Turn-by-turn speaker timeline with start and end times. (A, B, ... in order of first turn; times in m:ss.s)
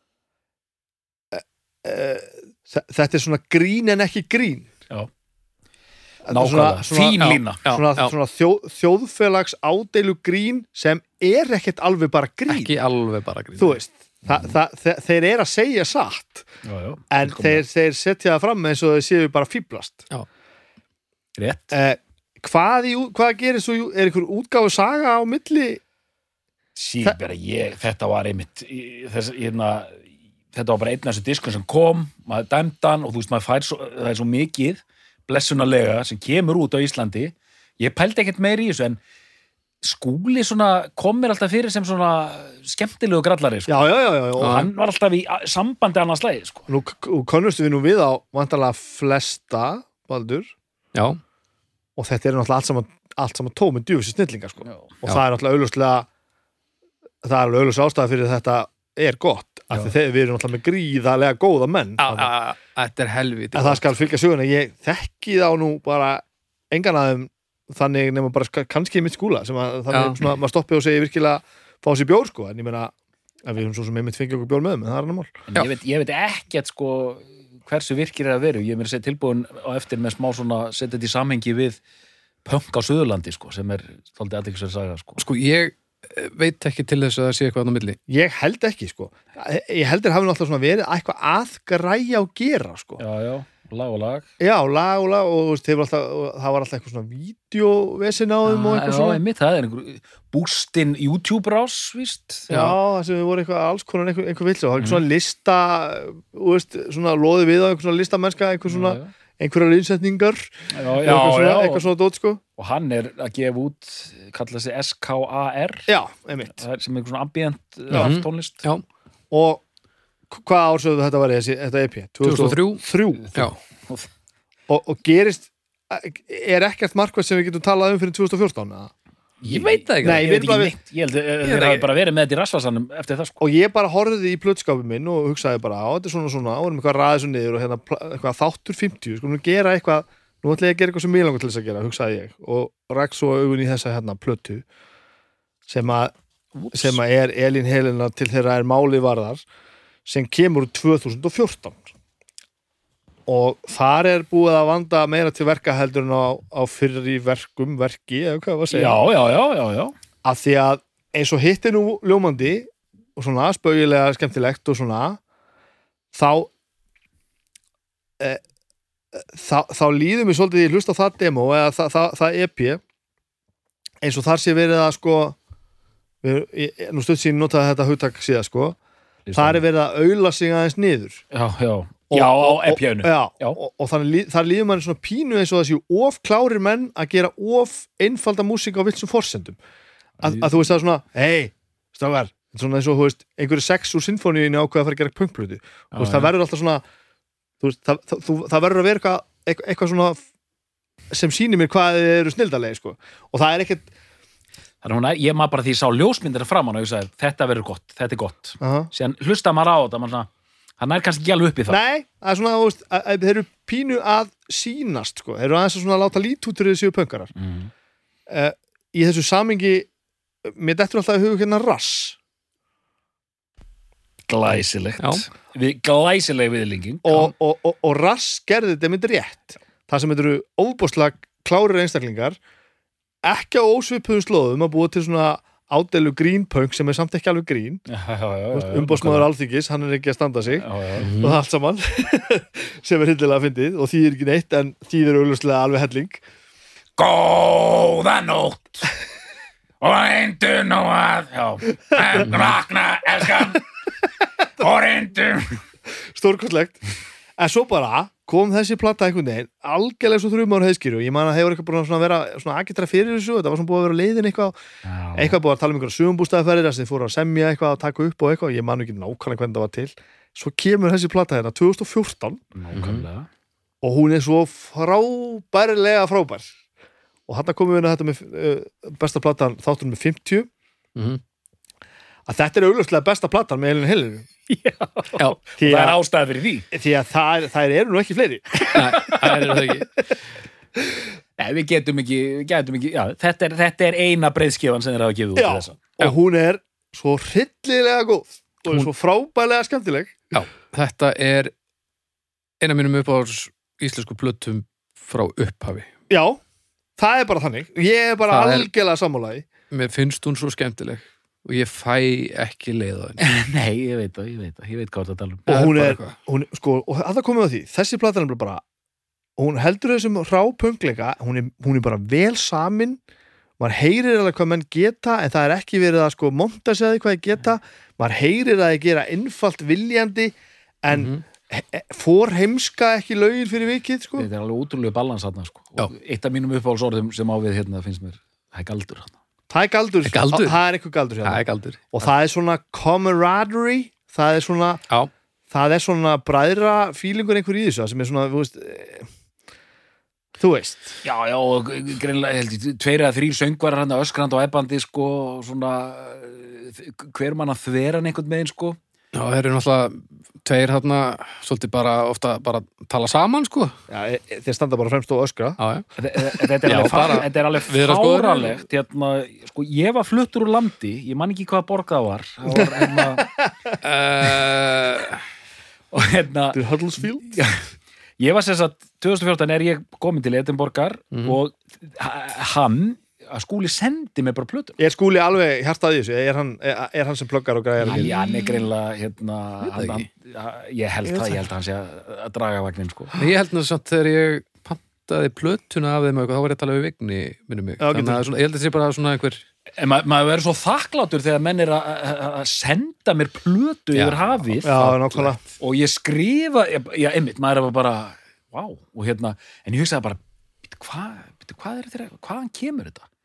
0:01.3-0:04.7 A
0:06.3-0:12.7 A
0:06.3-0:07.6 B
0:07.2-0:08.1 C
0:12.5-0:13.8 C
0:13.6-0:16.5 A
0:16.6-0:17.6 B
0:17.1-0:20.1 A
0:21.4-0:21.8 B
0:21.7-0:25.8 A
0:26.8-0:30.0 B
0:30.5-0:39.0 B
0:39.8-0:46.7 B
0:43.7-0:44.7 A
0:44.4-0:44.7 C
0:46.7-0:50.5 A
0:50.9-0:51.2 C
0:52.0-0:56.1 A
0:57.2-1:02.3 A
1:02.0-1:03.9 C
1:03.5-1:12.9 A
1:09.9-1:10.2 C
1:13.4-1:15.4 A
1:15.5-1:21.8 B
1:22.4-1:25.2 B
1:25.2-1:28.0 C
1:28.1-1:33.0 A
1:33.0-1:34.3 B
1:34.4-1:39.2 A
1:38.4-1:42.6 B
1:42.5-1:52.4 A
1:48.7-1:49.1 B
1:50.7-1:51.9 B
1:52.6-1:55.9 B
1:55.9-1:56.6 A
1:56.5-1:58.6 B
1:57.9-1:58.8 C
1:59.3-1:59.6 A
2:00.3-2:03.4 A
2:02.2-2:03.6 C
2:03.2-2:04.1 B
2:04.7-2:08.9 A
2:09.4-2:13.4 B
2:09.5-2:10.3 C
2:10.0-2:10.8 A
2:11.4-2:11.9 C
2:13.4-2:24.6 A
2:25.7-2:26.1 A
2:26.6-2:27.0 B
2:26.7-2:29.4 A
2:30.1-2:31.9 A
2:33.3-2:39.0 A
2:38.7-2:39.9 B
2:40.2-2:45.2 A
2:46.1-2:46.5 A
2:49.2-2:52.8 A
2:54.0-2:55.4 A
2:56.2-2:58.8 A
2:59.3-2:59.6 B
2:59.3-3:01.2 A
3:01.3-3:03.6 B
3:02.1-3:09.6 A
3:10.2-3:10.5 B
3:10.2-3:16.8 A
3:15.9-3:16.3 B
3:17.6-3:20.2 A
3:21.1-3:23.9 A
3:24.8-3:31.8 B
3:28.6-3:28.9 A
3:31.7-3:37.3 A
3:37.4-3:37.7 B
3:38.3-3:39.9 A
3:40.5-3:42.2 A
3:44.3-3:47.3 B
3:45.0-3:45.2 C
3:47.0-3:52.4 A
3:53.2-3:57.8 A
3:57.9-3:59.3 B
3:58.5-4:06.2 A
4:00.6-4:01.1 B
4:01.0-4:01.4 C
4:07.0-4:08.9 B
4:09.8-4:13.6 B
4:14.6-4:15.6 B
4:16.1-4:16.8 A
4:17.4-4:24.6 A
4:24.8-4:25.4 B
4:25.2-4:32.4 A
4:32.6-4:33.3 B
4:32.8-4:33.0 C
4:33.8-4:36.5 A
4:37.3-4:40.5 A
4:41.0-4:41.2 C
4:42.3-4:44.3 A
4:44.5-4:46.7 B
4:45.6-4:46.0 A
4:46.7-4:49.4 A
4:48.6-4:49.4 B
4:48.7-4:49.9 C
4:51.4-4:55.8 B
4:55.4-5:00.3 A
5:00.3-5:01.5 C
5:02.6-5:05.9 C
5:06.1-5:06.4 A
5:07.0-5:09.5 A
5:08.3-5:08.7 C
5:09.7-5:13.2 C
5:13.2-5:15.5 B
5:15.5-5:16.2 C
5:15.5-5:18.6 A
5:19.4-5:23.0 A
5:23.6-5:34.3 A
5:30.9-5:31.2 C
5:34.2-5:39.2 B
5:39.5-5:44.8 A
5:40.0-5:40.6 C
5:41.2-5:41.8 C
5:45.5-5:49.1 A
5:50.4-5:51.0 A
5:51.0-5:58.8 B
5:59.1-6:03.8 C
6:03.9-6:05.6 A
6:05.6-6:05.9 C
6:06.0-6:13.3 B
6:06.6-6:08.6 C
6:12.6-6:13.8 A
6:13.8-6:15.2 C
6:15.9-6:17.7 B
6:16.5-6:17.3 A
6:18.2-6:24.8 B
6:21.1-6:21.4 C
6:24.8-6:28.2 A
6:27.8-6:28.2 C
6:27.8-6:33.1 B
6:29.7-6:30.1 C
6:31.1-6:31.4 A
6:33.2-6:39.4 C
6:37.8-6:38.2 A
6:39.8-6:53.1 B
6:44.0-6:44.6 C
6:44.6-6:45.4 A